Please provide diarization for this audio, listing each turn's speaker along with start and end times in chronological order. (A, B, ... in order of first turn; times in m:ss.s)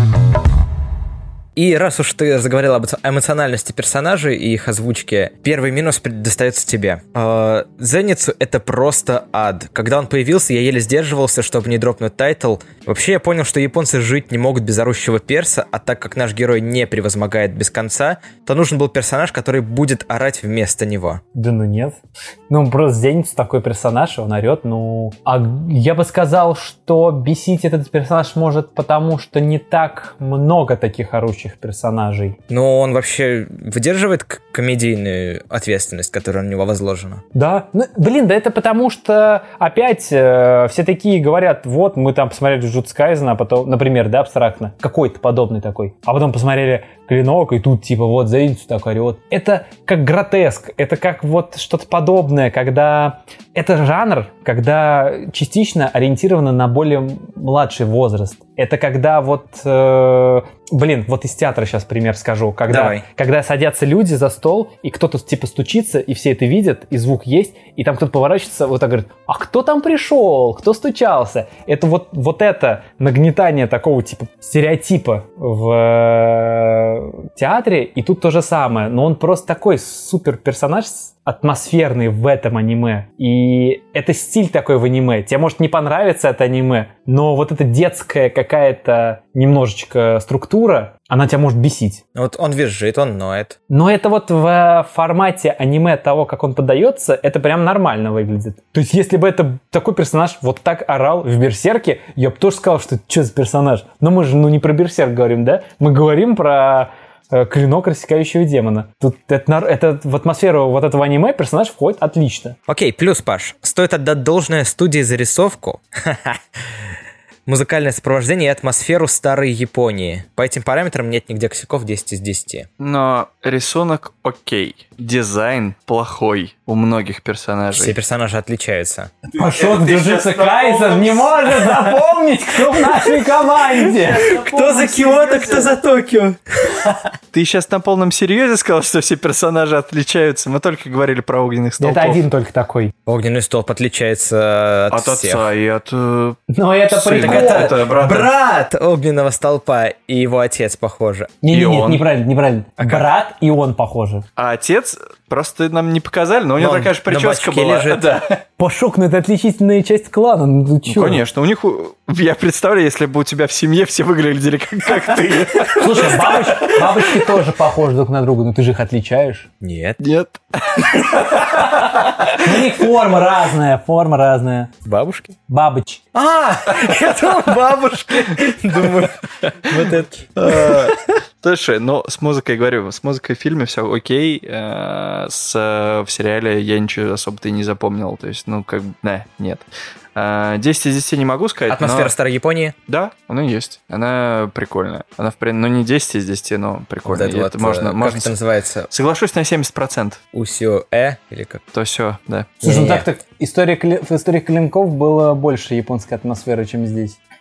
0:01.6-0:21.2 A
0:21.4-0:32.4 B
0:32.5-0:37.2 A
0:37.3-1:32.0 B
1:02.7-1:03.0 A
1:32.1-1:33.6 A
1:33.7-1:52.6 B
1:52.7-1:56.8 A
1:57.4-2:02.7 A
2:02.8-2:08.0 C
2:07.7-2:09.1 A
2:09.3-2:14.7 B
2:09.5-2:11.5 C
2:14.0-2:17.1 A
2:14.3-2:15.6 C
2:17.3-2:22.2 C
2:21.8-2:22.9 B
2:23.1-2:25.5 A
2:24.9-2:28.3 C
2:26.5-2:27.8 B
2:27.2-2:31.4 A
2:31.4-2:34.2 B
2:31.5-2:32.0 C
2:34.4-2:38.4 C
2:36.6-2:38.1 A
2:38.6-2:41.2 B
2:40.9-2:47.3 C
2:45.8-2:49.5 B
2:49.6-2:50.0 A
2:50.0-2:52.4 C
2:52.2-2:54.7 B
2:54.8-2:55.4 A
2:55.5-2:56.0 B
2:56.1-3:01.0 A
2:56.8-2:57.5 C
2:58.3-3:09.6 C
3:10.2-3:12.1 C
3:11.7-3:12.7 A
3:12.9-3:18.4 C
3:17.1-3:18.9 A
3:18.9-3:20.2 C
3:20.3-3:21.6 A
3:21.7-3:22.6 C
3:22.6-3:27.2 B
3:22.6-3:23.1 A